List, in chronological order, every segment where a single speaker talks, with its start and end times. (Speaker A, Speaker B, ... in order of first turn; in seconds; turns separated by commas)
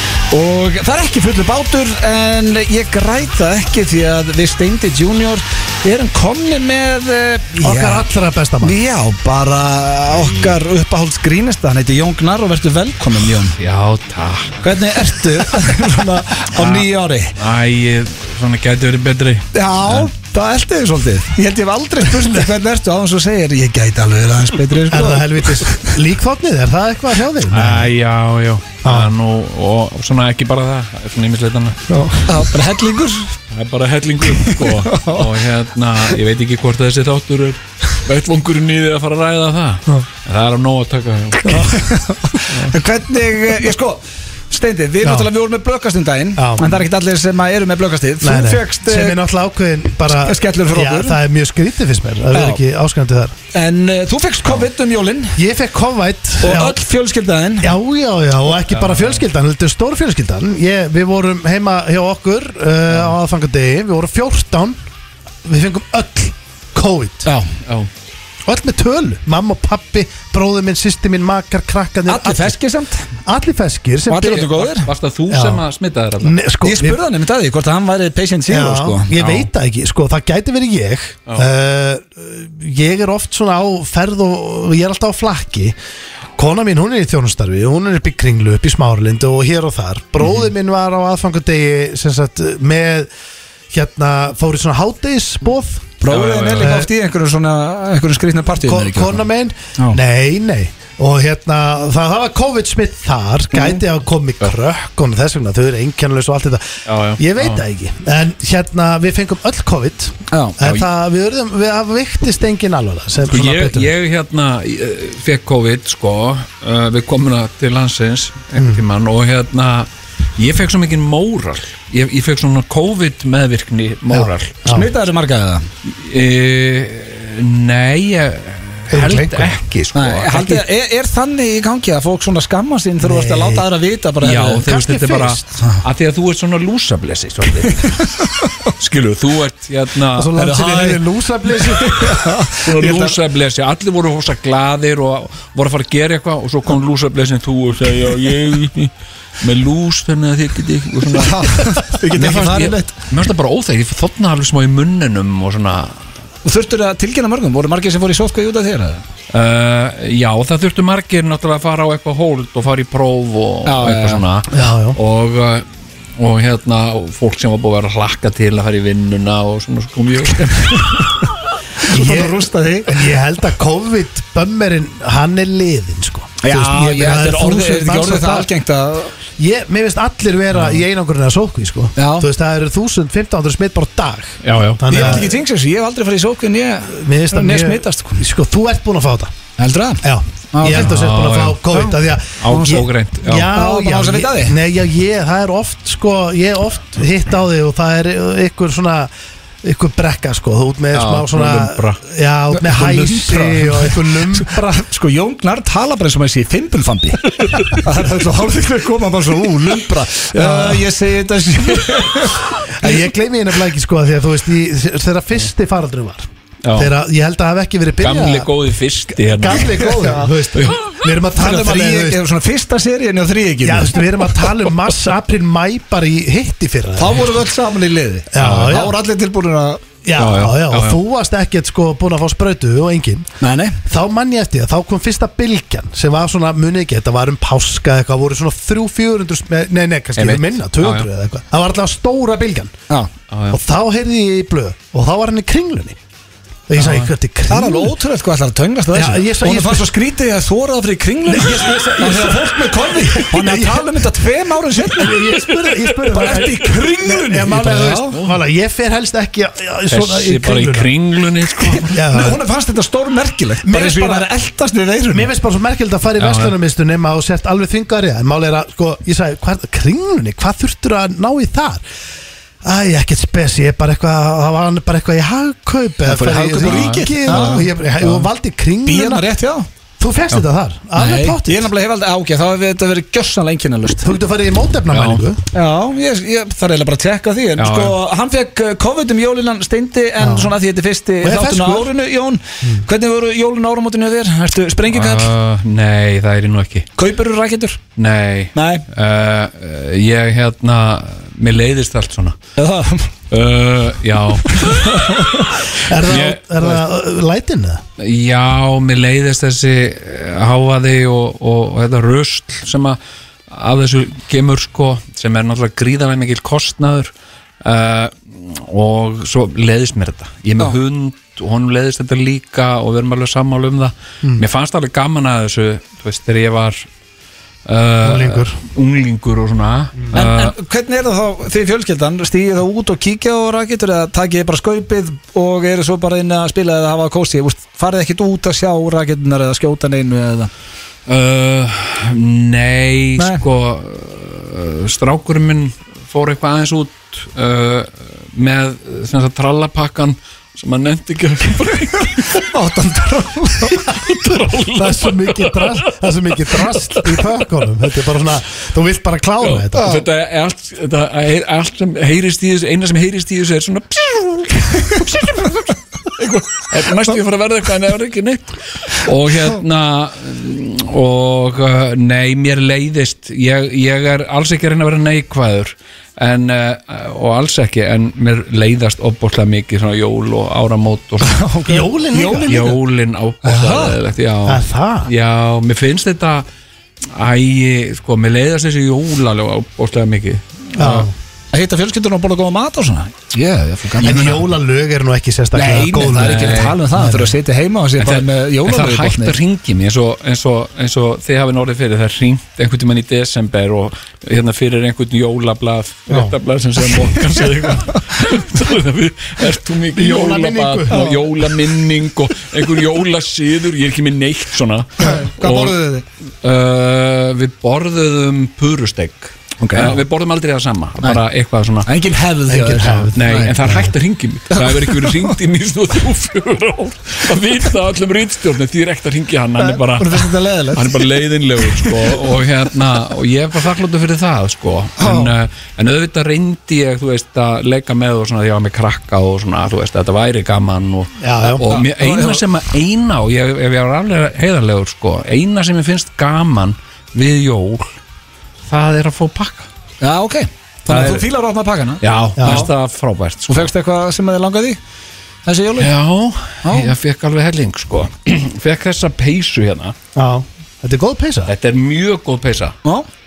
Speaker A: 0.3-8.1, Speaker B: 7.5-8.8, Speaker A: 8.6-13.6, Speaker C: 13.6-14.6, Speaker A: 14.6-17.4, Speaker C: 16.5-20.1, Speaker A: 19.5-25.9, Speaker B: 24.9-27.9, Speaker C: 27.5-31.9, Speaker B: 28.8-29.1, Speaker B: 31.9-32.4, Speaker A: 32.3-33.4, Speaker C: 33.5-41.8, Speaker A: 34.3-35.4, Speaker A: 41.4-49.2, Speaker B: 45.0-45.3, Speaker B: 46.4-46.8, Speaker B: 48.2-53.3, Speaker A: 50.1-51.2, Speaker A: 52.3-52.6, Speaker A: 53.5-55.4, Speaker B: 55.4-56.8, Speaker A: 56.4-57.7, Speaker B: 57.6-64.8, Speaker C: 58.7-59.2, Speaker B: 65.4-67.3, Speaker A: 67.2-67.5, Speaker B: 68.5-72.6, Speaker A: 72.0-73.1, Speaker B: 73.2-74.4, Speaker A: 74.1-74.9, Speaker C: 74.2-76.4, Speaker B: 75.3-75.6, Speaker B: 76.2-77.0, Speaker A: 76.6-79.1, Speaker B: 78.5-85.8, Speaker C: 79.2-79.5, Speaker B: 86.4-93.1, Speaker B: 93.7-95.9, Speaker A: 96.0-99.2, Speaker C: 96.1-96.8, Speaker B: 96.6-96.9, Speaker B: 98.6-113.9, Speaker C: 106.8-107.6, Speaker A: 110.3-110.6, Speaker C: 113.3-124.7, Speaker B: 118.6-118.8, Speaker B: 124.1-124.9, Speaker A: 124.7-125.7, Speaker C: 125.8-130.7, Speaker B: 128.9-129.5, Speaker A: 129.9-134.7, Speaker B: 133.0-133.7, Speaker C: 134.2-138.0, Speaker B: 134.6-135.4, Speaker A: 137.8-138.5, Speaker C: 138.8-140.5, Speaker B: 140.1-142.2, Speaker A: 140.4-141.0, Speaker A: 141.5-143.2, Speaker C: 142.5-156.0, Speaker A: 151.2-152.9, Speaker A: 156.4-159.0, Speaker C: 159.3-171.1, Speaker A: 163.7-164.2, Speaker B: 164.5-165.0, Speaker A: 170.5-171.1, Speaker A: 171.8-173.0, Speaker B: 171.9-178.5, Speaker A: 176.4-179.1, Speaker B: 179.4-185.3, Speaker A: 181.9-182.3, Speaker C: 184.4-185.2, Speaker A: 184.9-188.2, Speaker B: 186.9-189.3, Speaker A: 189.6-190.9, Speaker B: 190.0-199.1, Speaker C: 190.7-191.8, Speaker C: 192.4-193.5, Speaker A: 192.5-192.8, Speaker A: 193.5-194.6, Speaker B: 199.6-204.7, Speaker C: 200.9-202.0, Speaker A: 202.5-212.9, Speaker C: 207.5-207.8, Speaker B: 210.3-210.9, Speaker B: 212.7-218.5, Speaker C: 216.6-216.9, Speaker C: 218.0-220.9, Speaker B: 219.1-222.2, Speaker A: 219.7-220.3, Speaker A: 221.4-224.0, Speaker B: 223.6-227.3, Speaker A: 227.0-229.8, Speaker B: 228.3-228.9, Speaker B: 230.0-233.3, Speaker C: 230.2-231.0, Speaker A: 233.4-233.8, Speaker B: 233.8-242.8, Speaker C: 240.2-241.1, Speaker C: 243.3-243.6, Speaker B: 243.5-246.0, Speaker B: 246.7-247.9, Speaker C: 246.8-247.1, Speaker A: 247.5-255.2, Speaker B: 248.9-249.9, Speaker B: 251.3-253.9, Speaker B: 254.8-260.9, Speaker C: 255.2-256.5, Speaker A: 256.1-258.2, Speaker C: 259.9-262.0, Speaker A: 261.6-265.3, Speaker B: 261.9-262.4, Speaker B: 263.6-264.3, Speaker B: 265.1-271.8, Speaker C: 266.2-266.5, Speaker B: 272.6-279.3, Speaker A: 276.0-278.2, Speaker C: 276.6-277.6, Speaker A: 278.8-279.7, Speaker B: 280.0-281.7, Speaker A: 280.9-284.1, Speaker B: 284.0-285.4, Speaker C: 284.9-285.2, Speaker A: 285.5-295.3, Speaker C: 287.6-288.0, Speaker B: 290.2-290.5, Speaker B: 291.2-291.9, Speaker B: 292.6-292.9, Speaker C: 294.9-296.9, Speaker A: 297.0-297.8, Speaker C: 297.9-302.4, Speaker A: 298.5-298.9, Speaker A: 302.6-303.1, Speaker C: 303.3-305.2, Speaker A: 304.5-305.5, Speaker B: 305.8-307.8, Speaker C: 306.0-306.8, Speaker C: 308.0-313.0, Speaker C: 313.5-317.1, Speaker C: 317.6-326.9, Speaker C: 327.6-330.6, Speaker B: 328.0-328.6, Speaker B: 330.0-330.2, Speaker A: 330.1-340.5, Speaker C: 341.1-352.5, Speaker A: 343.2-343.4, Speaker A: 352.2-353.8, Speaker C: 353.8-357.4, Speaker B: 353.9-360.0, Speaker C: 359.4-381.4, Speaker A: 381.2-382.8, Speaker B: 381.7-382.7, Speaker C: 382.5-386.5, Speaker A: 383.4-384.0, Speaker B: 384.4-385.1, Speaker C: 387.1-391.1, Speaker B: 390.8-391.1, Speaker A: 391.5-394.4, Speaker B: 394.0-397.3, Speaker C: 394.0-394.4, Speaker A: 395.5-399.4, Speaker C: 396.0-396.8, Speaker C: 398.0-415.8, Speaker B: 406.1-406.3, Speaker A: 406.9-408.0, Speaker B: 409.9-411.2, Speaker A: 410.9-411.2, Speaker A: 415.0-416.0, Speaker C: 416.4-421.9, Speaker A: 419.6-420.0, Speaker A: 421.8-423.7, Speaker B: 422.5-423.9, Speaker C: 423.1-447.9, Speaker A: 424.5-425.2, Speaker A: 429.6-431.0, Speaker A: 435.0-435.3, Speaker B: 441.2-441.6, Speaker A: 441.4-442.4, Speaker C: 448.7-449.7, Speaker A: 450.0-452.7, Speaker C: 450.9-451.3, Speaker C: 452.0-453.7, Speaker B: 452.4-452.7, Speaker A: 453.5-454.8, Speaker A: 455.4-455.9, Speaker C: 455.8-459.9, Speaker A: 456.6-456.9, Speaker B: 460.1-461.5, Speaker C: 461.5-462.8